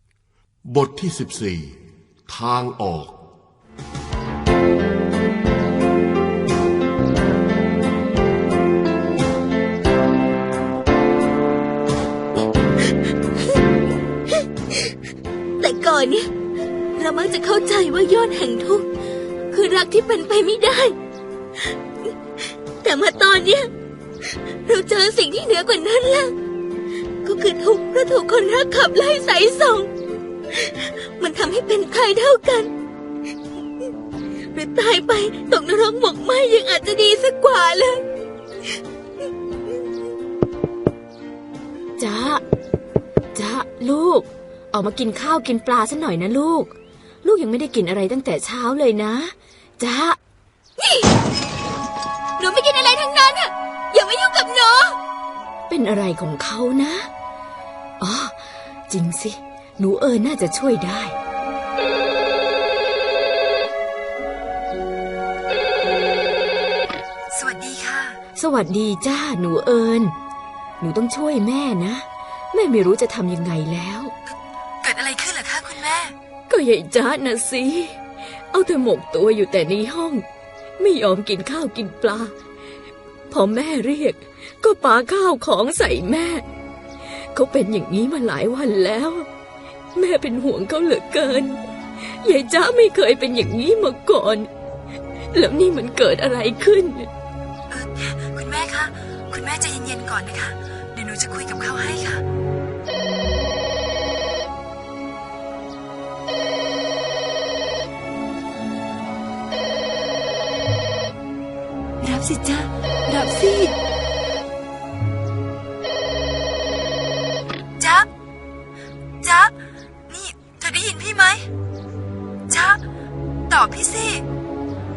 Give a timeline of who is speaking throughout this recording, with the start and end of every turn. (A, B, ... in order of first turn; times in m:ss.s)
0:00.7-0:03.2 A
0:15.6-0:16.3 B
0:17.0-0:18.9 B
0:19.5-0:21.0 B
0:22.8-0:23.7 B
0:24.6-0:26.3 B
0:27.2-0:29.9 B
0:30.5-0:32.7 B
0:34.5-0:38.0 B
0:42.0-0:42.4 C
0:43.4-0:46.7 C
0:47.2-0:50.2 C
0:50.8-0:51.1 B
0:52.4-0:55.0 B
0:55.7-0:57.1 C
0:58.0-0:58.4 C
0:58.9-1:01.1 C
1:07.3-1:08.2 D
1:08.4-1:10.1 C
1:10.8-1:14.1 C
1:14.3-1:16.2 D
1:16.5-1:18.0 C
1:18.5-1:20.2 C
1:20.8-1:22.3 C
1:23.3-1:26.4 C
1:27.3-1:29.3 C
1:30.0-1:34.5 C
1:35.3-1:37.1 C
1:37.7-1:42.2 D
1:52.0-1:53.8 D
1:57.8-1:58.1 D
1:59.2-1:59.5 D
2:00.1-2:01.5 D
2:02.5-2:02.8 D
2:03.5-2:04.2 D